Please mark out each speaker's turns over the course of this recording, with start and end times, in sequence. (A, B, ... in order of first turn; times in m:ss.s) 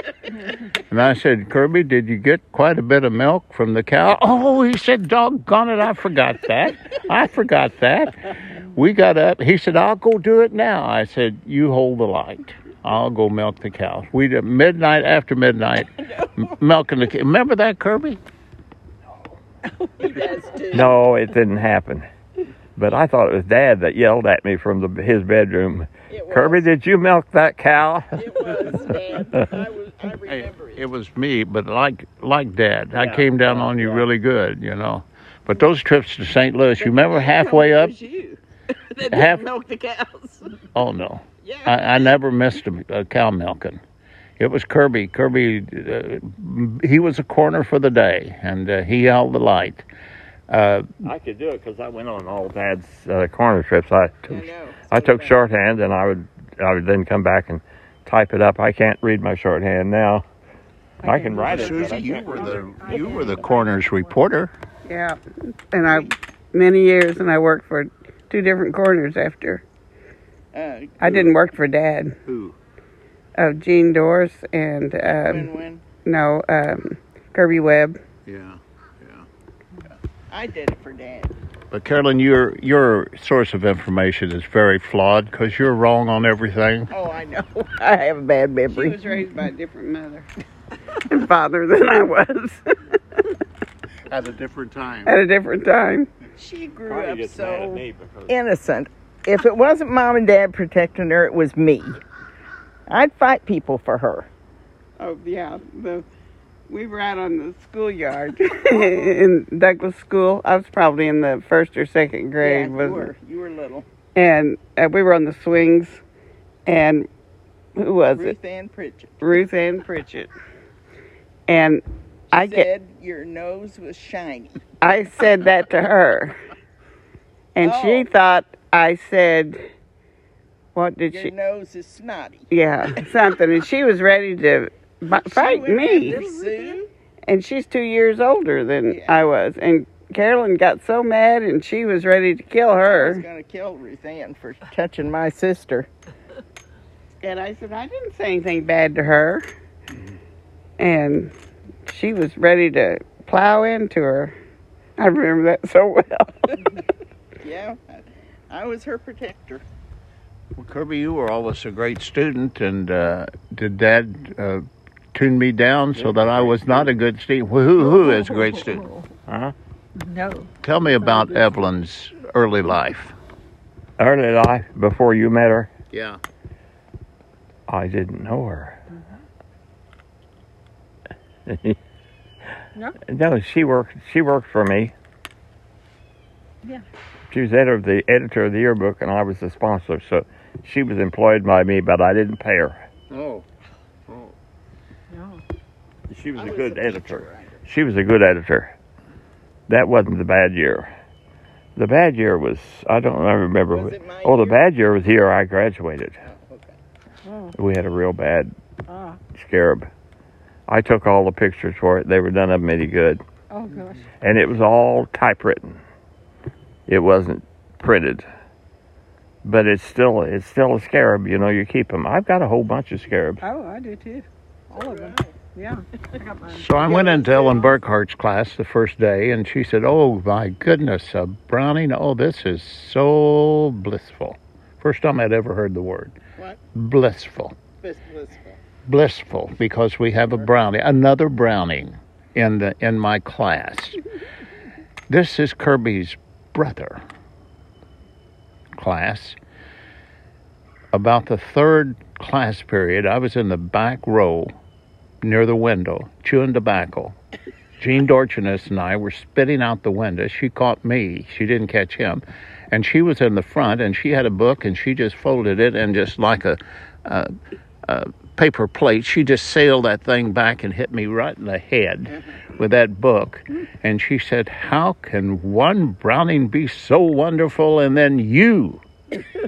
0:00.8-0:18.2 A
0:16.0-0:16.5 B
0:20.0-0:21.1 B
0:20.7-0:22.1 C
0:22.8-0:28.5 C
0:26.1-0:26.7 B
0:28.1-0:30.8 B
0:30.2-0:37.9 A
0:32.9-0:34.1 C
0:36.8-0:40.6 B
0:39.1-0:39.4 A
0:40.7-0:43.8 A
0:41.4-0:42.1 B
0:44.4-0:49.8 A
0:50.5-0:51.0 A
0:51.0-1:00.2 C
0:54.3-0:55.4 B
1:01.0-1:03.4 C
1:01.0-1:04.2 D
1:01.4-1:04.5 A
1:04.9-1:05.2 E
1:05.7-1:09.6 E
1:10.5-1:11.2 B
1:11.0-1:12.2 E
1:12.3-1:12.6 A
1:13.4-1:15.5 E
1:15.3-1:15.8 B
1:16.0-1:18.0 E
1:18.3-1:19.3 A
1:20.3-1:21.3 B
1:21.7-1:26.9 A
1:26.9-1:29.2 B
1:28.7-1:30.3 E
1:30.9-1:33.3 E
1:34.1-1:35.2 A
1:35.0-1:36.1 E
1:36.4-1:42.0 B
1:36.8-1:38.4 C
1:42.9-1:44.3 B
1:45.0-1:46.0 E
1:46.7-1:53.1 E
1:48.7-1:49.2 B
1:52.4-1:53.9 B
1:54.2-1:56.0 E
1:56.7-1:57.1 E
1:57.8-1:58.4 E
1:58.1-1:59.2 B
1:59.2-2:00.3 E
2:01.5-2:02.7 E
2:02.3-2:04.7 B
2:04.8-2:06.4 E
2:07.6-2:09.6 E
2:07.6-2:08.1 B
2:10.8-2:11.3 E
2:11.1-2:12.5 B
2:12.5-2:16.7 E
2:15.1-2:16.9 B
2:17.3-2:23.2 E
2:18.9-2:19.3 B
2:22.8-2:25.9 B
2:27.2-2:29.5 E
2:30.8-2:31.3 E
2:31.9-2:34.3 E
2:35.0-2:36.8 E
2:37.4-2:39.6 B
2:40.6-2:48.8 A
2:46.0-2:46.9 C
2:47.8-2:49.1 D
2:49.3-2:49.5 C
2:50.0-2:51.6 D
2:50.6-2:53.1 A
2:54.0-2:55.7 C
2:55.9-2:56.2 A
2:57.7-2:58.8 C
3:01.5-3:01.8 C
3:03.0-3:04.9 C
3:07.3-3:12.8 C
3:13.1-3:13.4 A
3:14.1-3:14.4 A
3:15.1-3:15.4 D
3:16.1-3:18.7 C
3:16.4-3:17.6 B
3:19.7-3:20.9 C
3:21.8-3:26.2 C
3:23.7-3:24.6 B
3:26.2-3:26.8 B
3:27.2-3:27.6 D
3:27.6-3:28.5 C
3:28.9-3:29.2 D
3:29.3-3:29.9 C
3:30.7-3:33.2 C
3:33.5-3:34.1 D
3:34.2-3:35.8 C
3:36.9-3:38.3 C
3:39.4-3:43.4 C
3:43.4-3:47.7 D
3:44.7-3:45.4 B
3:46.5-3:56.2 A
3:46.8-3:47.6 B
3:56.7-3:57.6 A
3:57.8-3:58.6 B
3:58.9-4:04.0 A
4:05.1-4:07.0 A
4:08.8-4:09.4 A
4:10.9-4:14.5 A
4:15.2-4:17.2 A
4:17.8-4:27.3 A
4:27.8-4:38.8 A